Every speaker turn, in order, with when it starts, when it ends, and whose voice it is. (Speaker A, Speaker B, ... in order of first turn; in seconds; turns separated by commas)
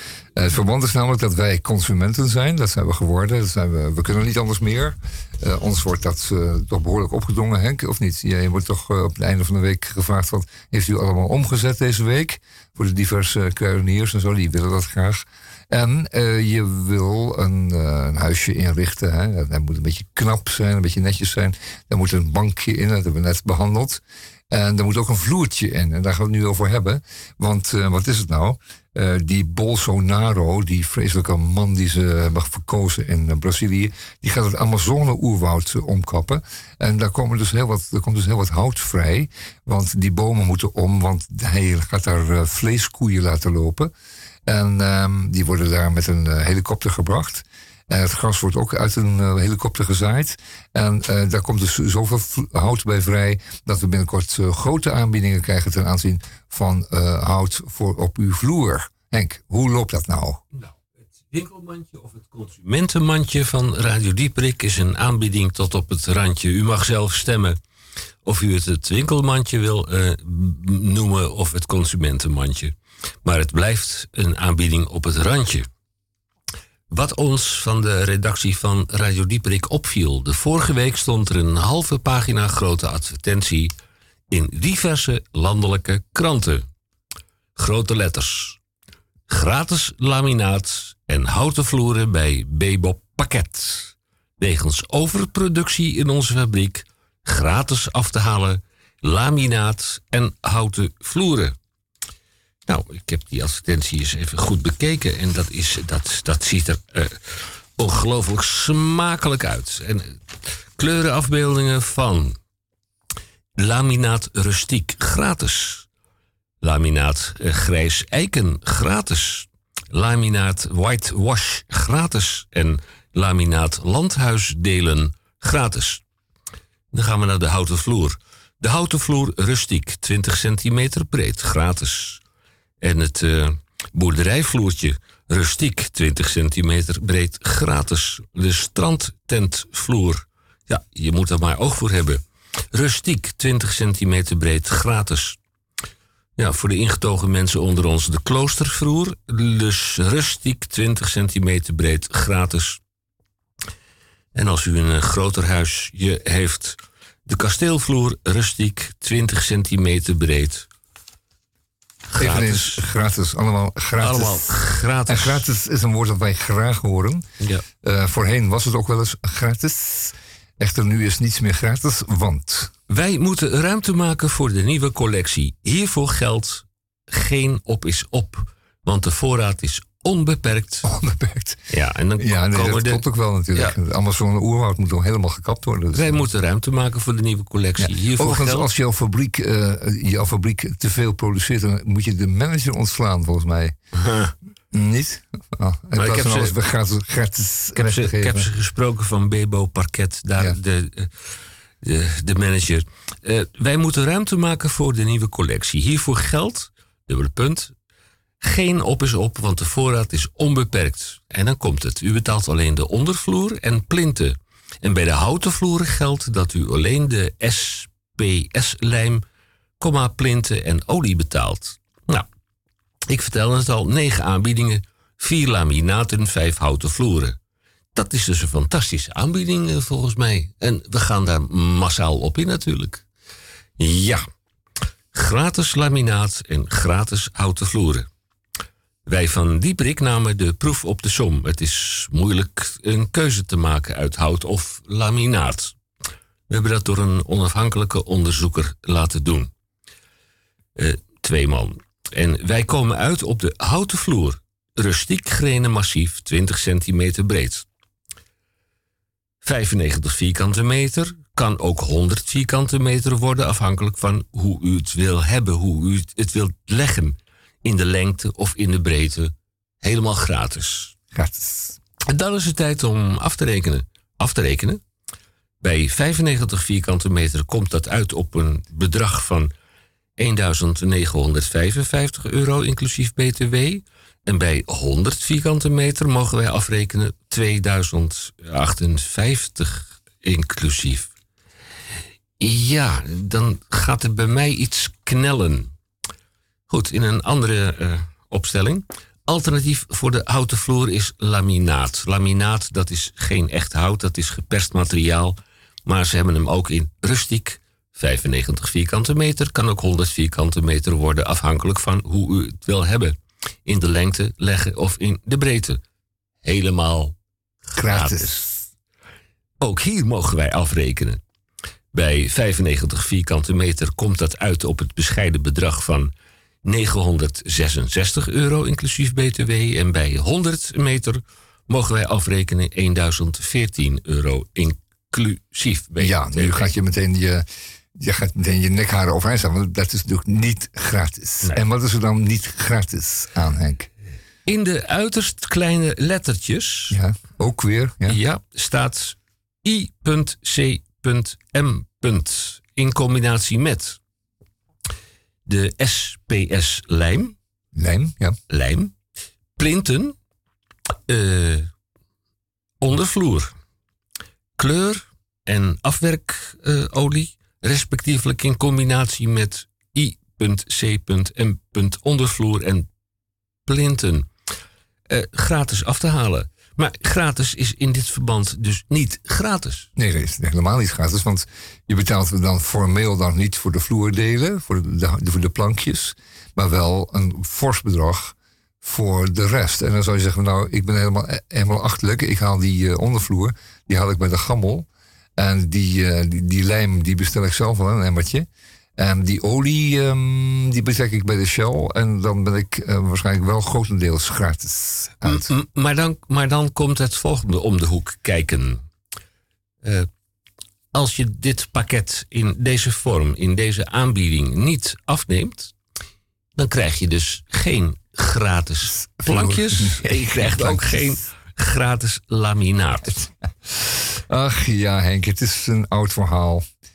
Speaker A: 0.3-43.9, Speaker A: 44.5-60.4, Speaker B: 61.3-67.6, Speaker B: 68.2-75.7, Speaker B: 76.9-83.7, Speaker B: 84.3-86.7, Speaker B: 87.6-88.6, Speaker B: 89.3-101.5, Speaker B: 102.7-110.2, Speaker B: 110.8-112.4, Speaker B: 113.6-115.9, Speaker B: 116.6-126.0, Speaker B: 126.9-132.2, Speaker B: 132.8-142.2, Speaker B: 142.7-145.4, Speaker B: 146.4-152.8, Speaker B: 154.3-160.7, Speaker B: 162.1-162.8, Speaker A: 162.2-164.5, Speaker B: 164.0-165.4, Speaker A: 165.1-167.2, Speaker A: 167.8-172.7, Speaker B: 172.9-180.8, Speaker A: 180.8-181.6, Speaker B: 181.7-183.0, Speaker A: 182.2-186.3, Speaker B: 185.9-188.7, Speaker A: 187.8-193.7, Speaker B: 193.9-194.3, Speaker A: 194.7-198.5, Speaker B: 195.9-196.6, Speaker B: 197.7-207.7, Speaker B: 208.4-219.2, Speaker B: 219.8-222.3, Speaker B: 223.1-227.4, Speaker B: 227.9-233.0, Speaker B: 233.8-234.2, Speaker B: 235.1-238.1, Speaker B: 239.1-245.7, Speaker B: 246.5-249.5, Speaker B: 250.8-257.6, Speaker B: 259.4-270.9, Speaker A: 271.1-271.8, Speaker B: 272.1-274.8, Speaker B: 275.6-279.5, Speaker B: 280.2-291.1, Speaker B: 292.4-295.7, Speaker B: 296.7-315.8, Speaker B: 316.4-317.1, Speaker B: 317.7-318.3, Speaker A: 317.8-318.6, Speaker B: 319.6-321.2, Speaker B: 321.9-326.1, Speaker B: 326.6-336.7, Speaker A: 336.0-337.4, Speaker A: 337.9-343.9, Speaker B: 344.4-347.0, Speaker A: 346.9-348.2, Speaker B: 348.1-354.0, Speaker B: 355.5-357.4, Speaker A: 357.7-358.4, Speaker B: 358.5-358.9, Speaker B: 359.6-360.1, Speaker B: 361.1-361.7, Speaker B: 362.8-363.5, Speaker B: 364.6-372.9, Speaker B: 373.6-374.3, Speaker B: 375.1-379.9, Speaker A: 379.9-405.5, Speaker B: 405.2-408.8, Speaker B: 410.9-415.7, Speaker B: 416.6-423.1, Speaker A: 418.9-421.2, Speaker A: 423.1-426.6